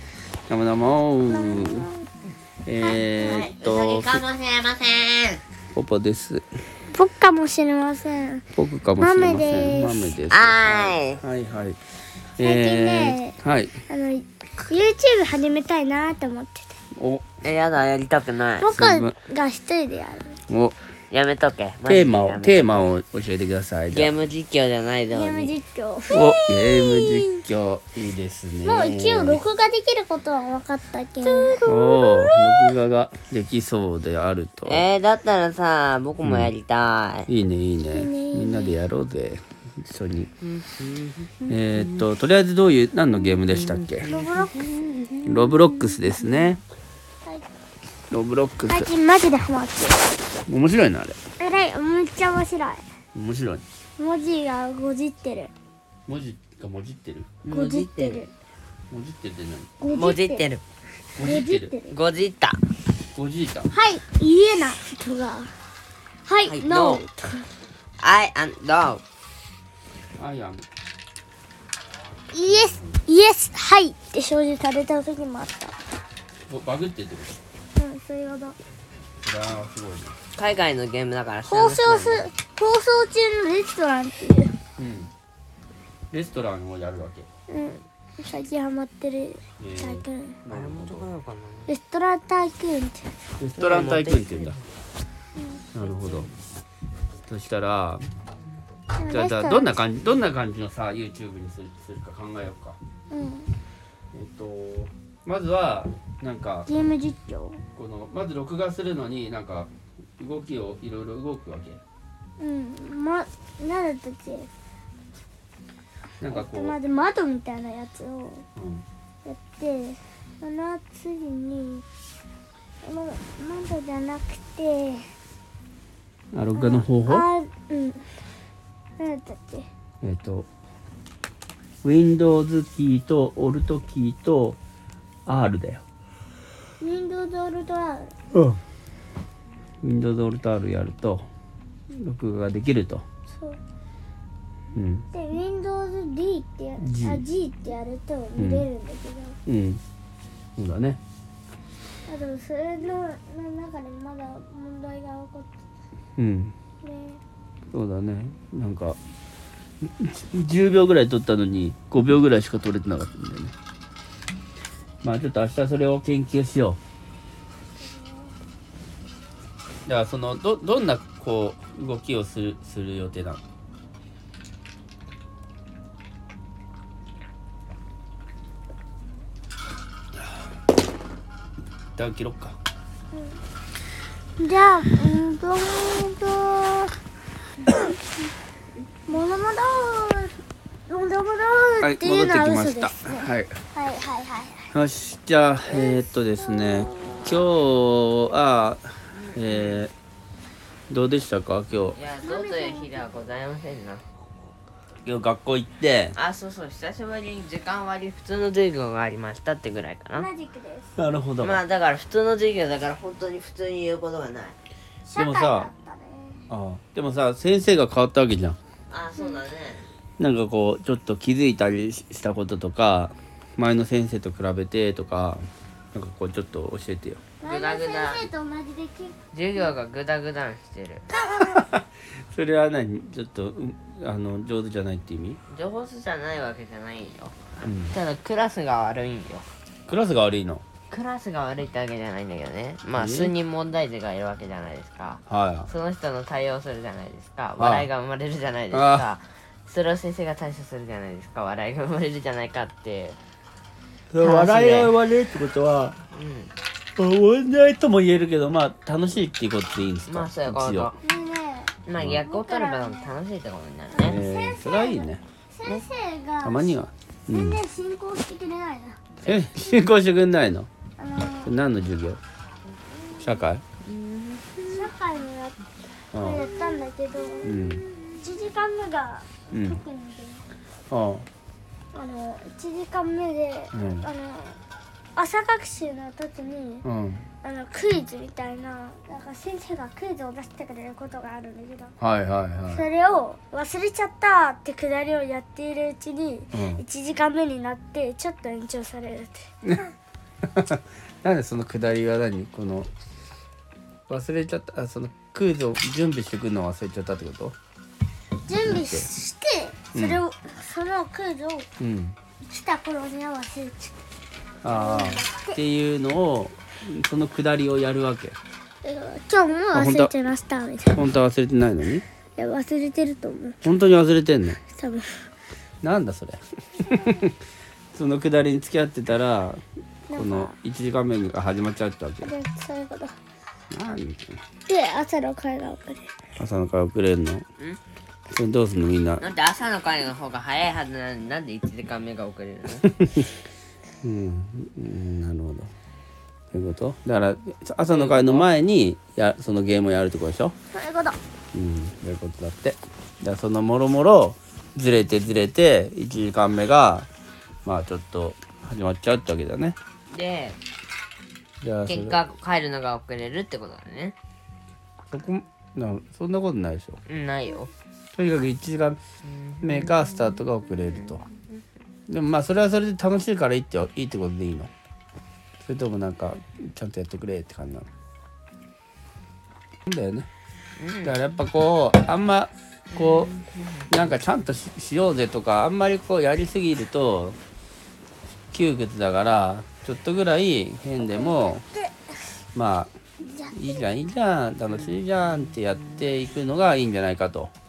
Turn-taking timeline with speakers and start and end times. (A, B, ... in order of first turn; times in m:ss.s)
0:00.5-0:01.9 A
0:01.3-0:02.0 B
0:02.6-0:04.2 A
0:03.2-0:05.4 C
0:05.7-0:06.4 A
0:06.9-0:08.4 B
0:08.6-0:11.8 A
0:09.0-0:10.2 B
0:10.3-0:11.2 C
0:12.4-0:13.7 A
0:12.4-0:13.4 B
0:13.9-0:16.7 B
0:16.9-0:17.2 A
0:17.4-0:18.7 C
0:18.6-0:20.4 B
0:18.7-0:19.1 A
0:20.5-0:20.8 A
0:21.1-0:22.9 C
0:21.8-0:24.1 A
0:23.9-0:25.5 C
0:25.1-0:27.4 B
0:26.1-0:29.4 A
0:28.6-0:32.0 B
0:31.2-0:31.9 C
0:31.6-0:34.9 A
0:34.6-0:37.3 C
0:36.2-0:36.5 A
0:37.3-0:40.3 A
0:37.9-0:38.8 B
0:40.5-0:42.0 C
0:41.5-0:44.1 A
0:43.3-0:45.2 C
0:44.0-0:46.5 B
0:45.2-0:46.6 A
0:48.1-0:48.9 A
0:48.7-0:50.1 B
0:50.5-0:51.2 A
0:51.4-0:52.8 B
0:53.1-0:53.6 A
0:54.0-0:55.5 B
0:56.1-0:57.3 A
0:57.4-0:58.2 C
0:57.5-0:58.3 B
0:58.9-0:59.8 A
0:59.8-1:00.5 B
0:59.9-1:00.6 C
1:01.1-1:01.7 A
1:01.2-1:01.9 B
1:01.9-1:02.6 C
1:03.1-1:03.7 A
1:03.7-1:05.5 B
1:06.2-1:07.4 B
1:06.4-1:07.0 C
1:08.0-1:09.0 C
1:10.2-1:10.6 A
1:12.3-1:15.7 B
1:12.4-1:13.0 A
1:16.5-1:17.4 A
1:17.8-1:18.6 B
1:19.2-1:20.2 A
1:20.4-1:22.2 C
1:21.4-1:24.5 B
1:24.8-1:25.1 A
1:26.1-1:27.3 A
1:27.5-1:30.4 B
1:29.6-1:31.1 A
1:30.4-1:31.7 C
1:31.7-1:33.1 B
1:33.4-1:34.6 A
1:33.5-1:34.6 C
1:35.4-1:35.6 B
1:35.7-1:36.3 A
1:35.8-1:36.3 C
1:37.2-1:38.0 A
1:38.9-1:39.8 B
1:39.1-1:42.8 A
1:43.1-1:43.5 B
1:44.1-1:46.7 A
1:46.7-1:47.6 B
1:47.7-1:51.8 A
1:52.4-1:54.5 B
1:56.2-1:56.8 A
1:56.3-1:58.4 B
1:58.6-1:58.8 A
1:59.2-2:01.8 B
2:02.8-2:05.1 B
2:06.3-2:07.3 A
2:06.5-2:08.1 B
2:09.0-2:09.7 B
2:10.0-2:10.5 A
2:11.8-2:14.6 A
2:15.2-2:15.8 A
2:16.8-2:18.1 B
2:18.3-2:18.6 A
2:19.8-2:21.2 A
2:21.9-2:23.0 A
2:23.3-2:23.6 B
2:24.7-2:25.0 A
2:25.1-2:29.4 B
2:26.8-2:27.2 A
2:28.4-2:28.7 A
2:29.4-2:29.8 A
2:30.6-2:31.0 A
2:32.1-2:35.6 B
2:36.2-2:36.5 A
2:36.8-2:37.2 B
2:37.7-2:39.0 A
2:39.8-2:43.5 A
2:45.0-2:46.8 A
2:47.8-2:48.3 B
2:49.8-2:53.4 A
3:02.0-3:02.6 A
3:03.1-3:03.4 B
3:04.4-3:06.9 B
3:07.6-3:07.9 B
3:09.1-3:10.3 B
3:10.9-3:14.7 B
3:11.8-3:13.6 A
3:14.7-3:19.9 A
3:15.7-3:17.2 B
3:19.1-3:19.8 C
3:20.9-3:22.0 A
3:21.9-3:24.0 C
3:22.2-3:23.0 B
3:25.0-3:26.1 A
3:26.1-3:30.3 C
3:30.1-3:30.9 B
3:31.0-3:31.6 A
3:31.4-3:34.6 C
3:35.1-3:36.4 B
3:35.1-3:35.7 A
3:36.5-3:38.6 A
3:38.9-3:39.9 C
3:39.2-3:39.4 B
3:40.2-3:47.2 A
3:47.4-3:49.7 B
3:47.4-3:48.3 C
3:49.3-3:51.0 C
3:51.1-3:51.6 B
3:51.3-3:55.4 A
3:55.5-3:57.4 C
3:57.6-3:58.0 A
3:57.9-3:59.4 C
3:59.9-4:00.6 A
4:00.9-4:13.2 C
4:03.0-4:03.3 A
4:05.3-4:05.7 A
4:07.6-4:07.9 A
4:08.7-4:09.1 A
4:14.1-4:16.0 A
4:14.2-4:14.9 C
4:16.1-4:16.5 C
4:17.0-4:20.9 A
4:20.1-4:21.0 C
4:21.0-4:21.7 B
4:21.8-4:24.2 C
4:22.0-4:22.2 A
4:22.2-4:23.1 B
4:23.9-4:26.8 B
4:24.0-4:25.2 A
4:26.4-4:27.6 A
4:27.3-4:29.0 B
4:29.2-4:30.7 A
4:31.0-4:31.5 B
4:31.4-4:32.2 A
4:33.2-4:33.6 A
4:33.8-4:34.9 C
4:34.6-4:35.6 B
4:36.1-4:36.4 A
4:36.1-4:37.6 B
4:37.4-4:37.8 A
4:38.2-4:40.4 B
4:39.5-4:39.8 A
4:40.9-4:41.3 A
4:41.9-4:44.6 B
4:43.7-4:44.1 A
4:45.2-4:46.9 B
4:46.8-4:47.3 A
4:47.4-4:51.9 B
4:52.0-4:52.8 A
4:52.7-4:59.8 B
4:56.5-4:56.8 A
5:00.4-5:02.9 A
5:04.1-5:07.6 A
5:08.4-5:11.7 B
5:08.6-5:09.1 A
5:09.9-5:10.2 A
5:11.8-5:12.2 A
5:12.4-5:13.9 B
5:14.6-5:18.4 A
5:14.7-5:15.6 B
5:18.8-5:21.0 B
5:19.7-5:20.1 A
5:20.9-5:22.0 A
5:22.4-5:23.6 B
5:23.6-5:24.6 A
5:24.7-5:25.1 B
5:25.8-5:27.4 A
5:27.9-5:29.6 A
5:30.1-5:30.5 B
5:30.1-5:32.3 A
5:32.2-5:33.2 B
5:33.7-5:34.3 A
5:34.7-5:36.1 B
5:36.4-5:37.4 A
5:38.3-5:39.2 A
5:39.2-5:42.9 C
5:42.8-5:43.3 A
5:44.0-5:45.7 A
5:46.5-5:50.5 A
5:47.8-5:48.5 C
5:50.7-5:51.2 B
5:51.5-5:57.1 A
5:57.6-5:59.8 A
6:00.1-6:00.6 C
6:01.6-6:02.2 A
6:01.8-6:04.1 C
6:05.1-6:07.0 A
6:07.1-6:07.7 C
6:08.1-6:09.0 A
6:09.2-6:11.2 C
6:09.6-6:11.2 A
6:12.1-6:14.7 A
6:15.6-6:17.9 A
6:19.8-6:20.3 A
6:20.8-6:21.2 C
6:21.0-6:23.3 A
6:22.9-6:24.0 C
6:23.9-6:27.4 A
6:28.5-6:31.6 A
6:31.0-6:31.9 B
6:32.5-6:32.9 A
6:33.2-6:33.8 B
6:33.5-6:37.5 A